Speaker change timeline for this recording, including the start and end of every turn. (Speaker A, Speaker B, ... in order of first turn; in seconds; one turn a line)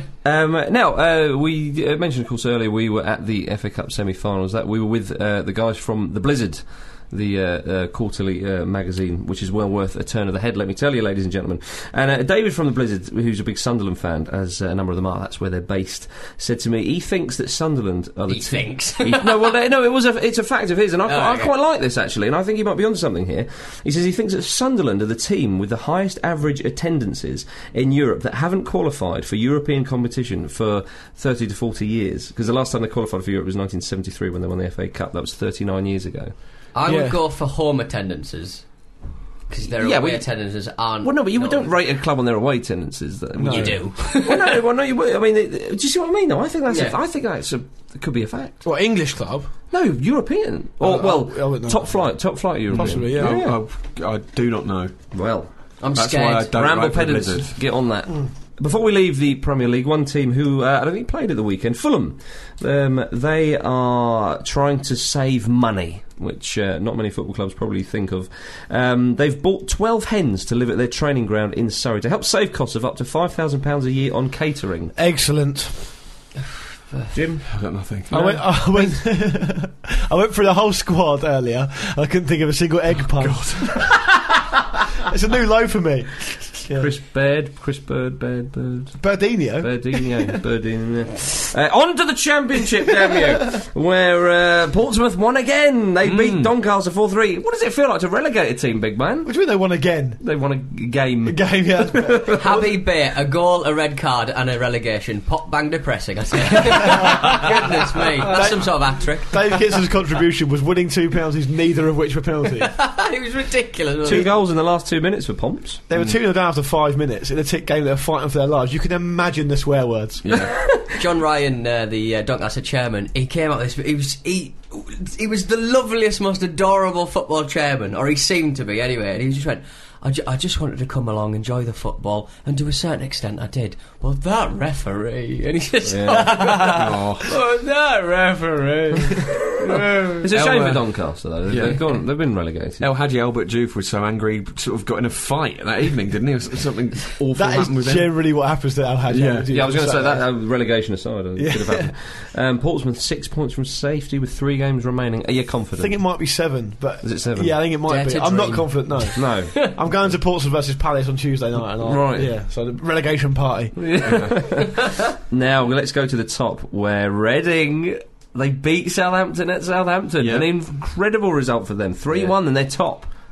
Speaker A: 0.2-36.3
Speaker B: 18.3-19.4
Speaker B: 21.1-21.5
Speaker B: 36.7-38.7
Speaker C: 36.9-37.2
Speaker B: 39.5-41.7
Speaker A: 39.8-48.6
Speaker C: 43.4-43.8
Speaker B: 43.5-44.5
Speaker B: 46.7-47.0
Speaker C: 48.6-49.5
Speaker A: 49.7-53.6
Speaker C: 50.8-53.5
Speaker D: 52.7-54.9
Speaker A: 55.1-55.5
Speaker B: 55.8-56.5
Speaker D: 55.9-57.6
Speaker A: 56.5-74.9
Speaker C: 75.0-75.8
Speaker B: 76.9-77.1
Speaker A: 77.1-77.5
Speaker D: 77.5-78.4
Speaker C: 78.1-84.4
Speaker D: 83.0-83.9
Speaker C: 85.0-86.9
Speaker A: 86.7-89.0
Speaker C: 89.0-90.3
Speaker A: 89.5-99.3
Speaker D: 96.0-96.5
Speaker C: 99.2-100.2
Speaker A: 100.2-102.5
Speaker C: 101.2-102.8
Speaker B: 102.4-109.5
Speaker C: 107.0-107.5
Speaker C: 108.2-112.7
Speaker B: 112.7-114.3
Speaker A: 114.0-115.8
Speaker C: 115.9-120.3
Speaker D: 120.2-120.5
Speaker B: 120.9-140.2
Speaker A: 135.8-136.7
Speaker D: 136.7-137.3
Speaker A: 140.2-142.9
Speaker D: 140.3-140.9
Speaker D: 141.5-141.9
Speaker D: 142.8-148.2
Speaker C: 147.3-150.4
Speaker D: 149.1-149.5
Speaker A: 149.5-155.9
Speaker C: 151.3-151.9
Speaker C: 155.8-163.8
Speaker A: 157.0-157.6
Speaker B: 157.9-159.7
Speaker A: 159.1-159.7
Speaker A: 161.8-162.3
Speaker A: 163.8-173.1
Speaker D: 164.0-164.3
Speaker D: 170.2-170.5